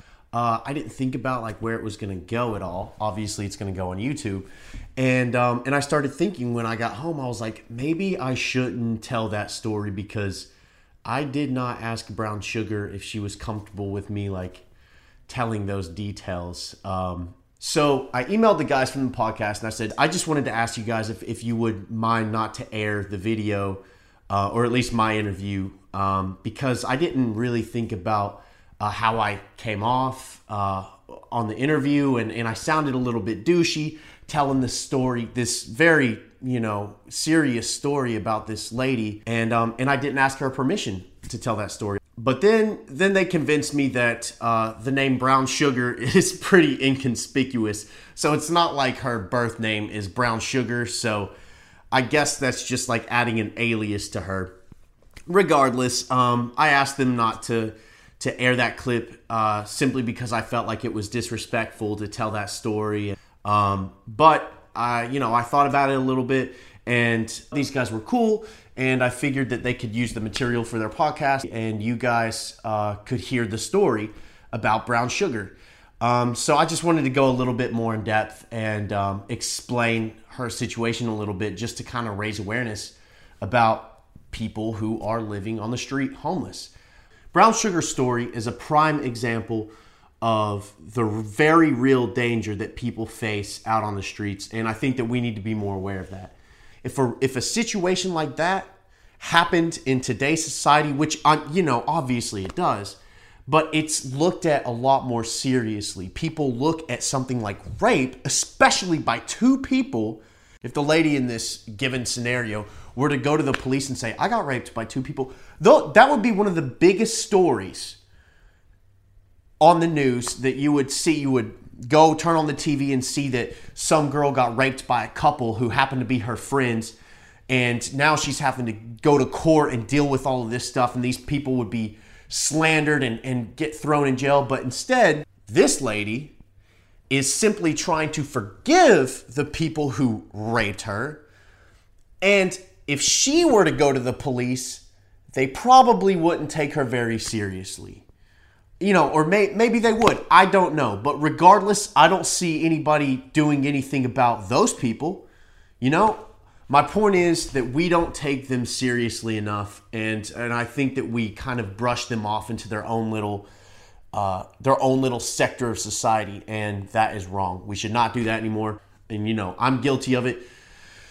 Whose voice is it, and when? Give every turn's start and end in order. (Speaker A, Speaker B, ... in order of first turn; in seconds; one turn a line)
Speaker A: 0.3-10.5
Speaker A: 11.1-14.6
Speaker A: 15.3-51.3
Speaker A: 51.9-54.5
Speaker A: 55.3-86.7
Speaker A: 87.3-118.0
Speaker A: 119.6-127.0
Speaker A: 127.5-136.4
Speaker A: 137.1-141.2
Speaker A: 142.2-148.0
Speaker A: 148.8-155.2
Speaker A: 155.8-163.5
Speaker A: 164.1-170.4